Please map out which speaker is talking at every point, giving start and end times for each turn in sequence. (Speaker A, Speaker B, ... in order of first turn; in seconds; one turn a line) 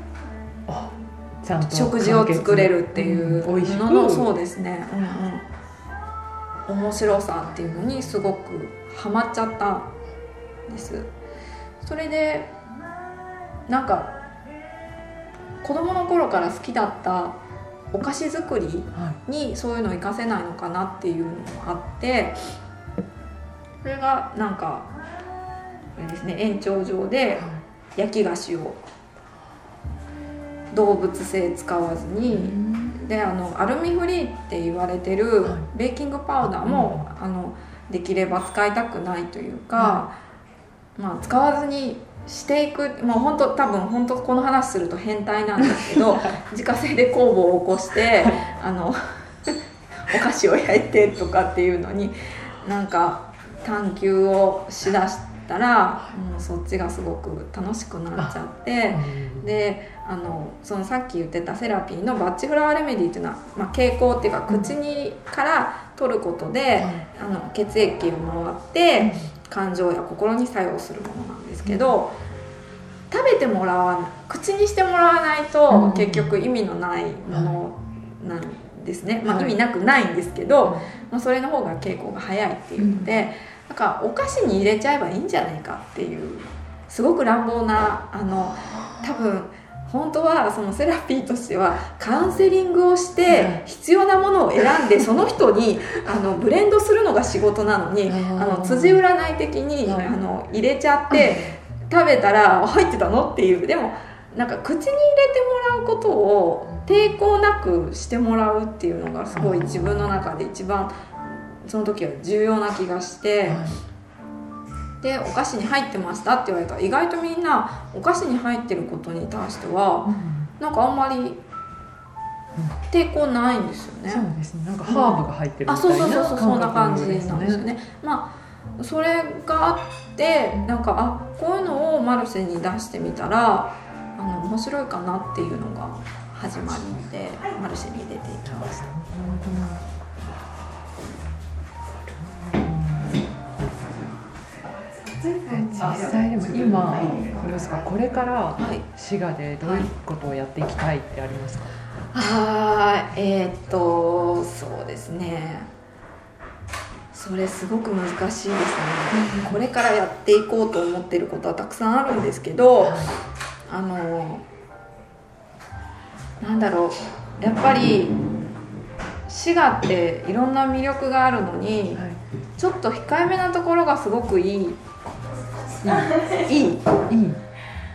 Speaker A: 0.7-4.3
Speaker B: 1.6-5.5
Speaker B: 6.7-9.9
Speaker B: 10.7-11.1
Speaker B: 11.8-12.5
Speaker B: 13.7-14.1
Speaker B: 15.6-17.4
Speaker B: 17.9-22.4
Speaker B: 23.8-24.9
Speaker B: 26.0-28.8
Speaker A: 27.4-27.6
Speaker B: 30.7-40.1
Speaker A: 32.3-33.0
Speaker A: 36.4-37.0
Speaker A: 39.8-40.0
Speaker B: 41.0-72.1
Speaker A: 45.8-46.4
Speaker A: 58.9-59.5
Speaker A: 66.8-67.0
Speaker A: 69.0-69.3
Speaker A: 71.6-71.9
Speaker B: 73.1-113.6
Speaker A: 75.7-76.4
Speaker A: 79.2-79.5
Speaker A: 82.8-83.1
Speaker A: 93.3-93.6
Speaker A: 98.1-99.0
Speaker A: 99.8-100.1
Speaker A: 101.1-101.5
Speaker A: 109.3-110.2
Speaker A: 113.5-113.8
Speaker B: 115.0-121.4
Speaker A: 120.0-120.5
Speaker B: 122.9-124.2
Speaker A: 124.1-127.7
Speaker B: 124.9-138.9
Speaker A: 138.4-140.7
Speaker A: 141.9-143.2
Speaker A: 144.9-151.8
Speaker B: 145.4-146.1
Speaker B: 148.6-148.9
Speaker B: 149.6-149.9
Speaker B: 152.1-155.7
Speaker B: 157.1-163.1
Speaker A: 159.2-159.5
Speaker A: 162.8-163.1
Speaker B: 163.7-164.5
Speaker B: 166.4-168.2
Speaker B: 169.3-172.0
Speaker B: 172.6-174.8
Speaker A: 175.8-176.4
Speaker B: 175.9-176.9
Speaker A: 177.1-177.4